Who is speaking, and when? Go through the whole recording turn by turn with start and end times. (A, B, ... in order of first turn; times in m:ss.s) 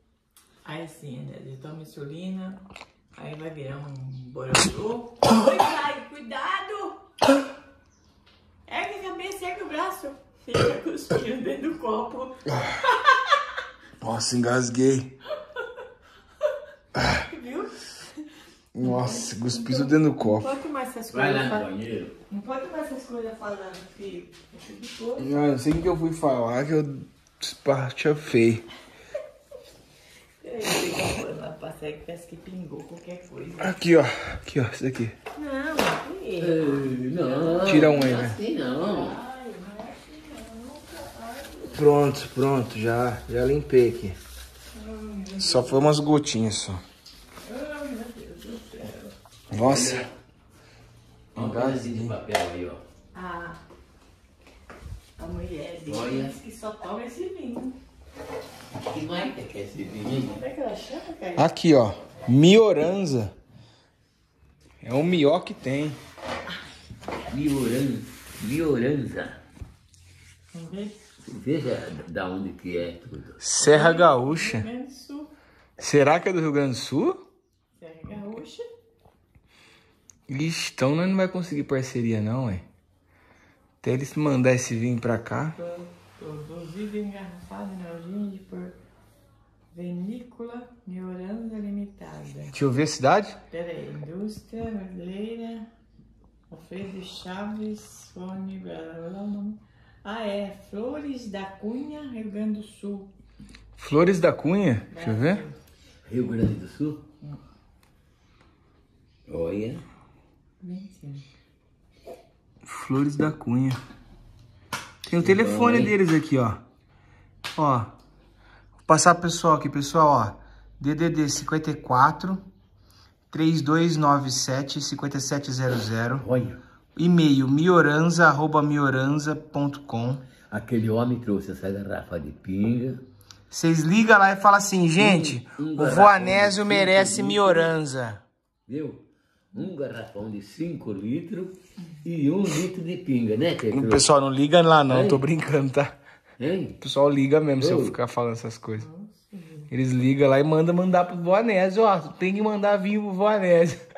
0:00.6-0:02.6 A
0:03.1-0:07.0 A
0:08.7-0:13.3 A
0:14.0-0:15.1 B
0:17.0-0:18.2 A
0:18.7-0:20.5 B
0:18.8-0:21.7 A
0:21.1-0:22.1 C
0:22.3-0:25.4 A
0:25.2-0:28.6 B
0:30.4-0:33.8 A
0:33.6-0:35.1 B
0:35.3-0:41.9 A
0:36.4-0:39.2 C
0:37.6-0:38.4 B
0:41.7-0:44.2 B
0:44.7-0:46.0 A
0:45.4-0:46.8 B
0:47.4-0:49.1 A
0:49.5-0:50.0 B
0:49.5-0:50.1 C
0:51.3-0:52.8 C
0:51.3-0:52.1 B
0:53.1-0:53.6 A
0:55.2-0:57.7 A
0:55.8-0:56.3 C
0:58.8-1:00.4 C
1:00.1-1:01.5 A
1:01.4-1:03.3 B
1:04.8-1:06.0 B
1:07.3-1:09.4 C
1:10.5-1:10.9 A
1:11.2-1:13.4 C
1:13.4-1:14.7 B
1:13.6-1:15.3 A
1:15.8-1:17.2 B
1:17.8-1:18.6 A
1:20.3-1:22.6 B
1:23.8-1:25.6 B
1:25.6-1:28.8 A
1:29.7-1:32.6 A
1:32.5-1:33.4 B
1:33.5-1:35.7 A
1:36.5-1:43.1 A
1:43.8-1:45.4 B
1:44.9-1:45.6 A
1:46.0-1:47.0 C
1:49.3-1:49.8 C
1:50.6-1:51.2 A
1:52.6-1:53.8 B
1:55.0-1:56.0 C
1:55.0-1:56.6 B
1:57.6-1:57.9 B
1:58.9-2:02.4 B
2:03.3-2:06.3 B
2:06.2-2:06.6 C
2:07.0-2:10.2 B
2:10.5-2:13.0 C
2:13.5-2:18.2 B
2:15.0-2:17.7 C
2:18.7-2:24.1 C
2:23.7-2:25.9 B
2:24.9-2:25.2 C
2:26.4-2:26.8 C
2:26.8-2:28.9 B
2:27.6-2:28.0 C
2:28.8-2:29.7 A
2:29.7-2:33.8 B